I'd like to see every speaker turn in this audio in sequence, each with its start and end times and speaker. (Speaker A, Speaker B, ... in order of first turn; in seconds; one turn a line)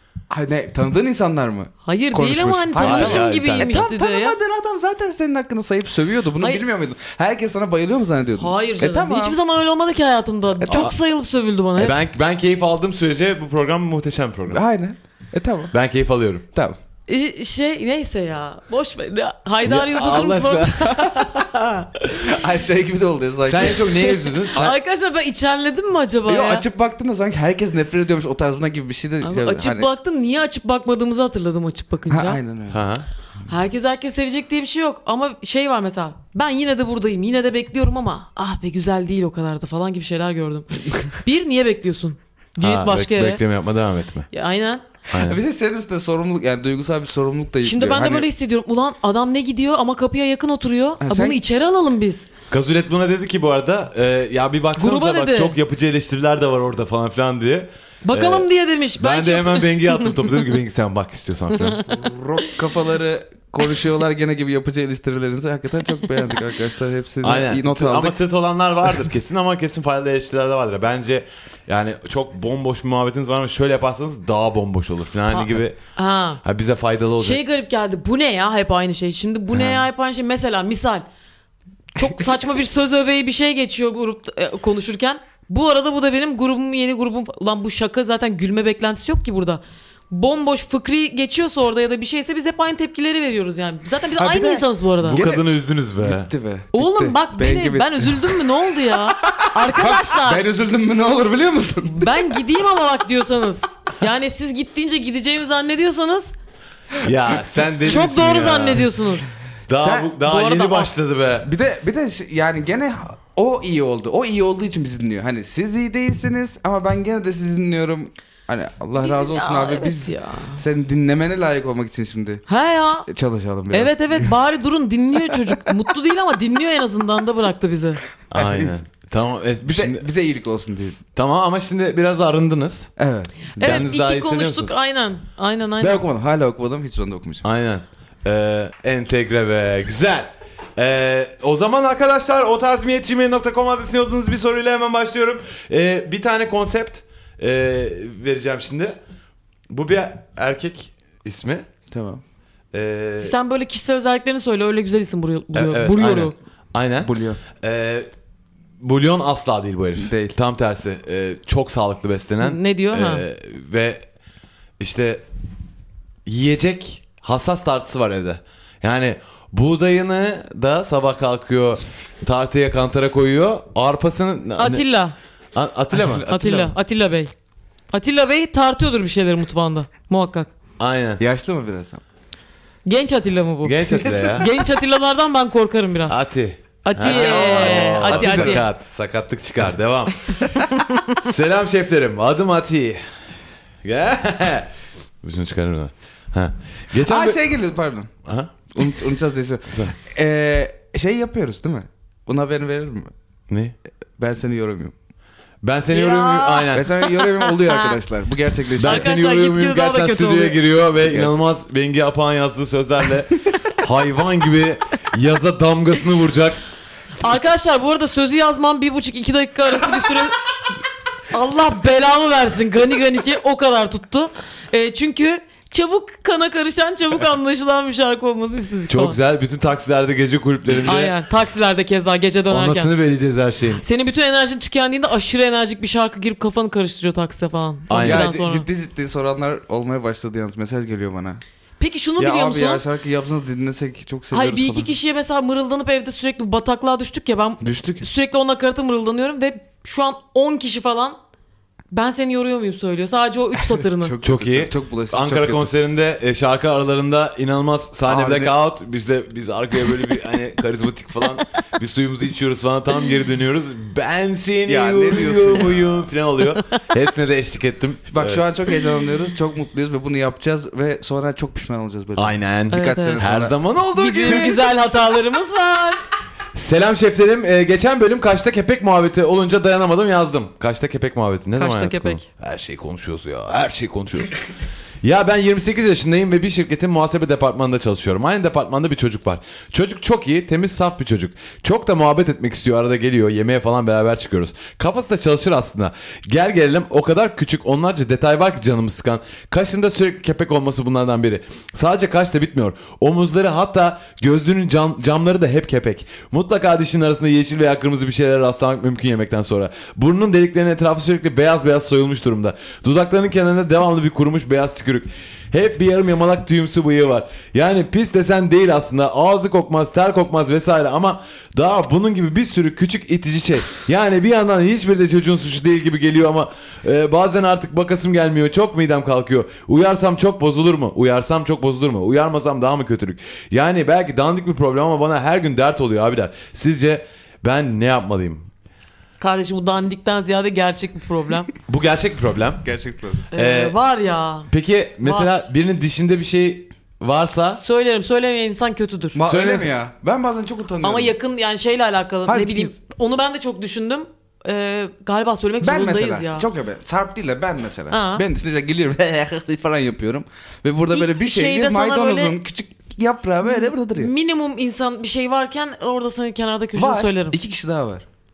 Speaker A: 0.3-9.4
Speaker B: 1.8-4.4
Speaker C: 2.8-3.9
Speaker B: 8.4-11.9
Speaker A: 10.6-10.9
Speaker C: 10.7-10.9
Speaker C: 11.8-14.6
Speaker A: 14.5-15.7
Speaker C: 15.7-16.4
Speaker B: 17.1-21.1
Speaker C: 19.6-22.3
Speaker A: 22.2-24.8
Speaker C: 23.4-24.7
Speaker B: 24.3-26.6
Speaker A: 26.3-29.9
Speaker B: 29.2-32.4
Speaker A: 32.1-32.8
Speaker C: 32.7-33.1
Speaker B: 33.5-43.4
Speaker C: 42.6-44.3
Speaker B: 44.3-44.8
Speaker C: 45.1-45.4
Speaker A: 45.1-48.3
Speaker B: 47.6-52.3
Speaker A: 51.0-51.4
Speaker C: 52.5-61.8
Speaker B: 54.8-55.5
Speaker B: 58.0-60.1
Speaker B: 61.6-61.9
Speaker A: 61.9-68.2
Speaker C: 67.2-75.8
Speaker B: 75.3-76.4
Speaker C: 76.4-77.4
Speaker B: 77.2-81.0
Speaker C: 79.5-79.8
Speaker B: 81.9-95.2
Speaker A: 94.2-95.5
Speaker C: 95.1-96.3
Speaker A: 96.0-98.6
Speaker B: 96.7-100.4
Speaker A: 99.2-102.4
Speaker B: 101.9-106.3
Speaker C: 107.0-108.9
Speaker B: 107.8-109.4
Speaker C: 109.7-111.5
Speaker A: 109.7-110.2
Speaker B: 110.2-110.9
Speaker A: 111.4-122.4
Speaker B: 119.0-120.6
Speaker B: 122.5-123.1
Speaker A: 123.1-124.3
Speaker B: 123.7-128.0
Speaker A: 125.3-125.7
Speaker C: 128.3-130.1
Speaker A: 128.3-128.8
Speaker A: 129.6-131.0
Speaker C: 131.2-132.9
Speaker A: 133.0-133.8
Speaker C: 133.6-134.7
Speaker B: 133.6-136.0
Speaker A: 135.8-137.4
Speaker C: 137.4-149.0
Speaker C: 149.7-151.7
Speaker A: 151.9-152.2
Speaker C: 152.7-153.3
Speaker B: 153.2-156.3
Speaker C: 155.5-158.1
Speaker A: 157.0-157.4
Speaker C: 158.8-164.1
Speaker A: 160.0-160.3
Speaker B: 162.4-163.2
Speaker C: 164.8-165.2
Speaker C: 166.2-174.8
Speaker B: 174.6-175.2
Speaker C: 175.6-176.3
Speaker A: 175.9-176.7
Speaker B: 176.3-177.3
Speaker B: 177.9-180.5
Speaker C: 180.8-181.2
Speaker A: 181.2-182.0
Speaker B: 182.8-186.2
Speaker C: 183.6-184.5
Speaker C: 186.1-190.6
Speaker B: 186.8-188.7
Speaker A: 187.0-188.7
Speaker B: 190.7-191.2
Speaker C: 191.2-193.0
Speaker C: 193.8-194.7
Speaker C: 195.2-197.6
Speaker A: 196.9-198.1
Speaker C: 198.2-198.7
Speaker A: 198.8-203.1
Speaker C: 199.7-199.9
Speaker C: 203.5-203.7
Speaker A: 204.2-204.9
Speaker C: 205.6-206.9
Speaker B: 205.9-208.0
Speaker A: 206.7-209.1
Speaker C: 208.8-216.6
Speaker B: 208.8-210.6
Speaker A: 211.0-211.4
Speaker B: 217.2-220.4
Speaker B: 221.3-229.2
Speaker C: 228.9-231.1
Speaker B: 230.9-232.9
Speaker C: 232.5-233.8
Speaker B: 233.8-238.7
Speaker C: 237.9-238.3
Speaker A: 237.9-241.4
Speaker B: 241.8-242.8
Speaker A: 242.2-244.9
Speaker B: 244.3-251.2
Speaker A: 247.6-248.1
Speaker B: 251.9-254.2
Speaker A: 253.8-255.7
Speaker C: 254.2-268.4
Speaker A: 258.1-258.5
Speaker A: 264.7-266.1
Speaker A: 268.1-273.6
Speaker C: 272.1-274.7
Speaker B: 272.7-273.2
Speaker B: 273.9-276.0
Speaker C: 276.6-284.4
Speaker B: 281.6-282.2
Speaker C: 285.0-338.5
Speaker B: 339.2-341.5
Speaker C: 341.7-342.7
Speaker A: 342.6-343.2
Speaker C: 343.3-343.8
Speaker B: 343.3-344.5
Speaker C: 344.5-347.6
Speaker B: 345.0-345.3
Speaker B: 347.6-349.2
Speaker A: 349.1-351.1
Speaker C: 349.3-349.7
Speaker B: 350.8-356.4
Speaker A: 352.3-352.7
Speaker A: 355.6-364.1
Speaker B: 357.9-358.3
Speaker B: 360.9-362.4
Speaker B: 363.5-367.4
Speaker A: 366.8-368.1